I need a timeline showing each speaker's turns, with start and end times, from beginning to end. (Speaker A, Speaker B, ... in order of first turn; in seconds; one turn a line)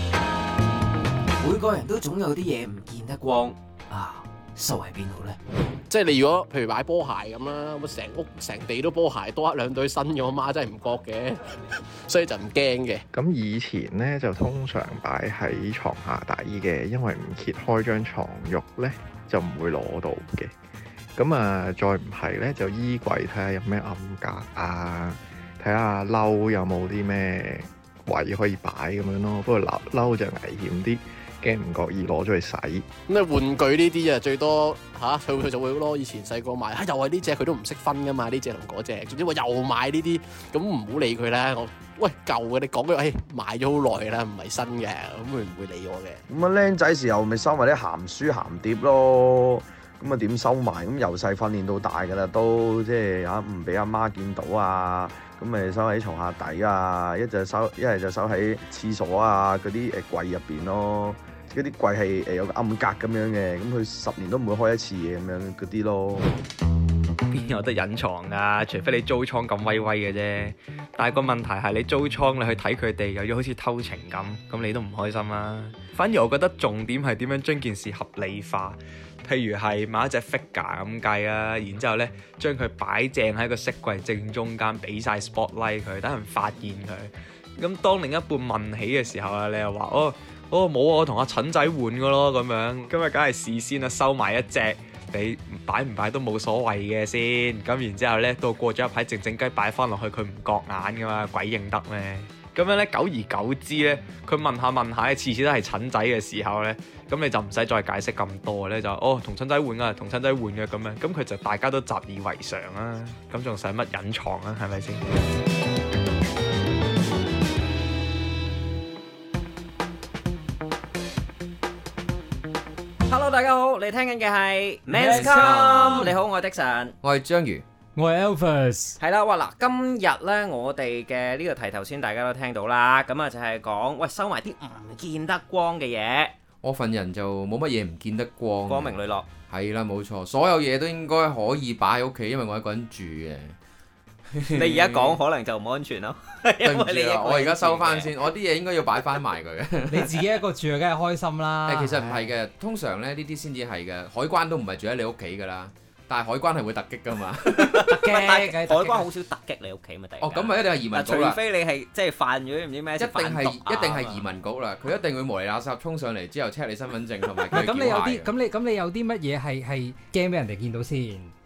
Speaker A: 1.4-5.4
Speaker B: 5.9-13.0
Speaker C: 13.1-20.5
Speaker C: 21.2-32.9
Speaker B: 33.1-46.2
Speaker D: 46.3-66.3
Speaker E: 67.3-115.0
Speaker A: 123.1-126.9
Speaker F: 124.9-126.1
Speaker G: 125.1-126.1
Speaker G: 127.0-127.6
Speaker F: 128.0-129.0
Speaker A: 129.0-136.3
Speaker G: 136.6-139.0
Speaker A: 138.7-139.2
Speaker G: 139.5-143.6
Speaker G: 144.3-145.2
Speaker A: 144.5-148.2
Speaker G: 146.6-150.2
Speaker F: 149.9-152.3
Speaker G: 151.7-158.0
Speaker A: 157.6-164.2
Speaker F: 157.9-159.1
Speaker G: 160.2-161.4
Speaker G: 163.0-168.3
Speaker F: 167.5-171.3